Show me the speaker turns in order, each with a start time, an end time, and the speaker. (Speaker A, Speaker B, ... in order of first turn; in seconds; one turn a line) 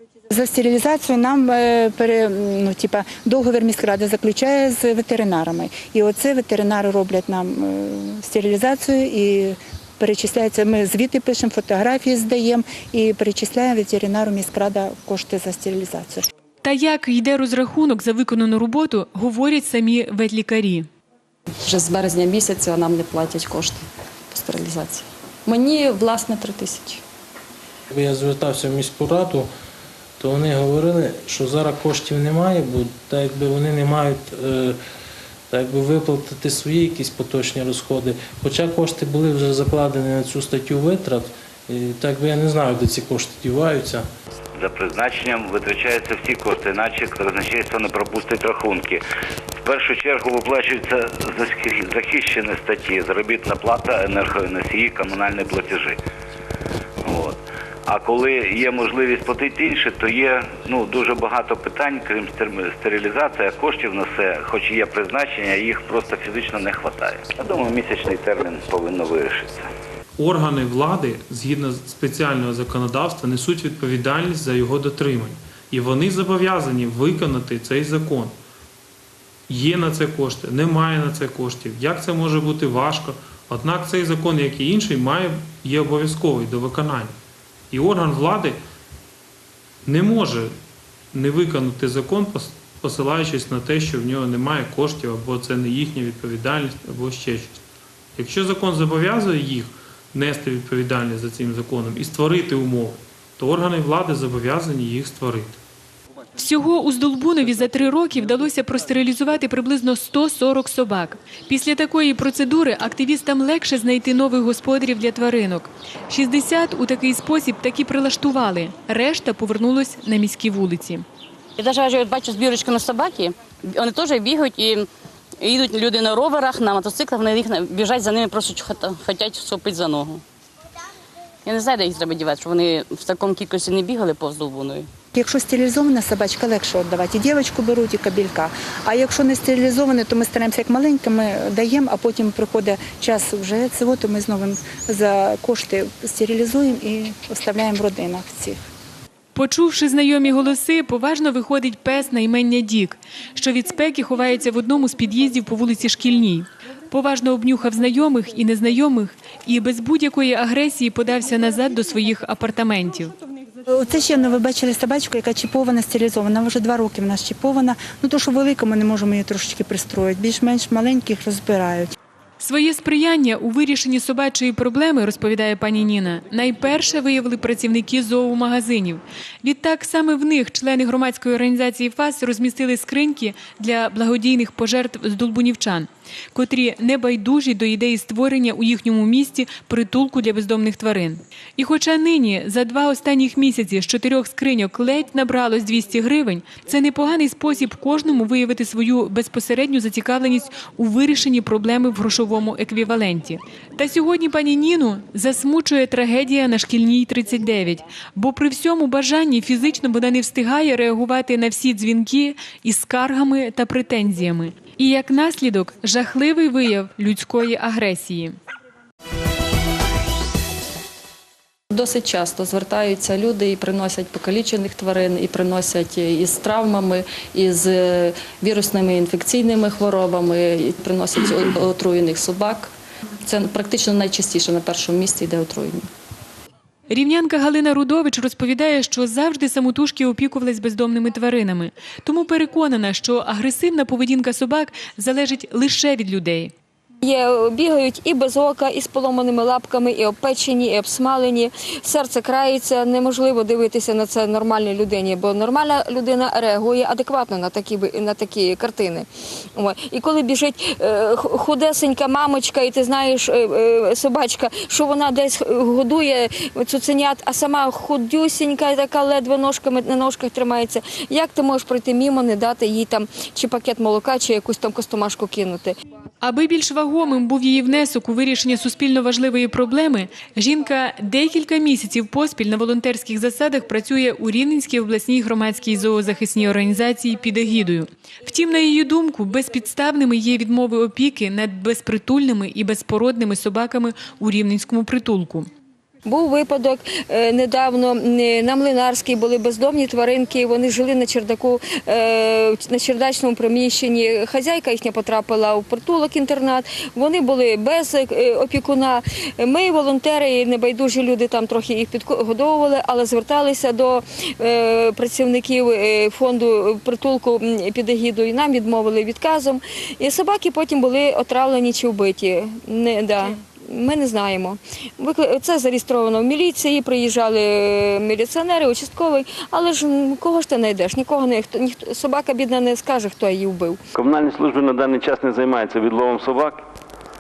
Speaker A: 0.3-16.3
Speaker B: 16.6-20.9
Speaker C: 21.6-27.0
Speaker D: 27.9-29.5
Speaker D: 30.2-34.8
Speaker D: 35.5-44.1
Speaker E: 44.6-49.0
Speaker E: 49.6-56.0
Speaker E: 57.0-69.7
Speaker F: 70.2-78.4
Speaker F: 79.5-87.2
Speaker F: 87.7-88.6
Speaker F: 89.8-90.5
Speaker F: 91.1-97.5
Speaker F: 98.2-105.6
Speaker B: 106.4-121.0
Speaker G: 121.6-124.9
Speaker G: 125.4-130.2
Speaker G: 131.4-134.9
Speaker A: 135.1-148.6
Speaker B: 149.3-163.2
Speaker A: 163.7-171.9
Speaker B: 172.4-218.4
Speaker C: 221.7-232.7
Speaker C: 233.2-235.9
Speaker B: 236.9-246.5
Speaker H: 247.0-275.8
Speaker B: 276.2-295.5
Speaker H: 296.1-333.8
Speaker I: 333.9-336.6